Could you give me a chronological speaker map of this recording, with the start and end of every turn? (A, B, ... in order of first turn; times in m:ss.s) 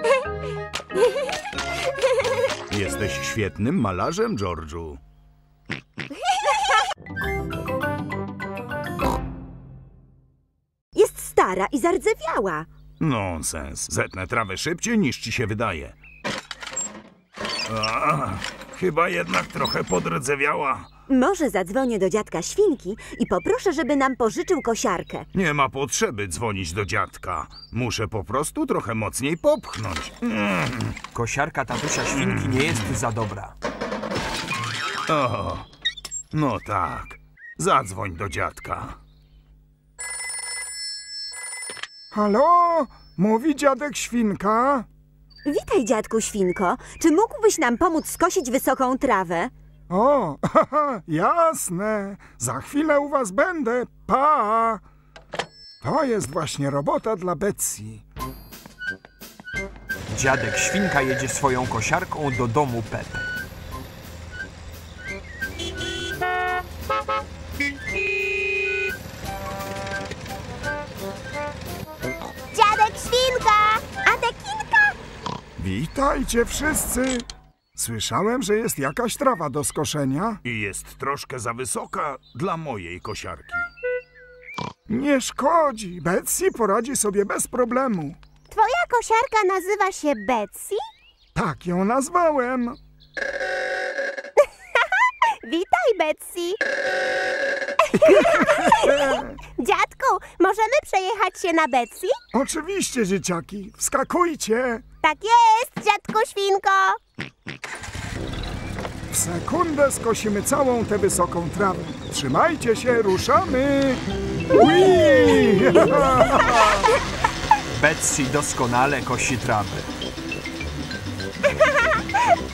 0:02.7-0:05.0 A
0:06.2-0:06.5 B
0:10.9-0:12.7 B
0:13.0-0:16.0 A
0:17.7-0:20.9 A
0:21.1-0:25.3 B
0:25.3-0:31.0 A
0:31.1-0:33.5 C
0:32.1-0:32.8 A
0:35.1-0:35.7 A
0:36.3-0:39.0 A
0:42.1-0:44.9 D
0:45.4-0:49.5 B
0:49.9-0:54.8 D
0:55.8-0:58.0 D
1:00.1-1:03.2 C
1:12.5-1:14.9 E
1:14.0-1:14.5 B
1:15.6-1:20.4 D
1:20.4-1:23.7 A
1:24.9-1:28.2 D
1:28.5-1:30.8 E
1:31.3-1:32.8 D
1:34.8-1:36.6 E
1:37.9-1:42.2 E
1:38.0-1:39.4 D
1:42.3-1:44.8 D
1:45.0-1:47.0 E
1:49.1-1:56.9 D
1:57.7-1:59.9 C
2:01.6-2:02.0 E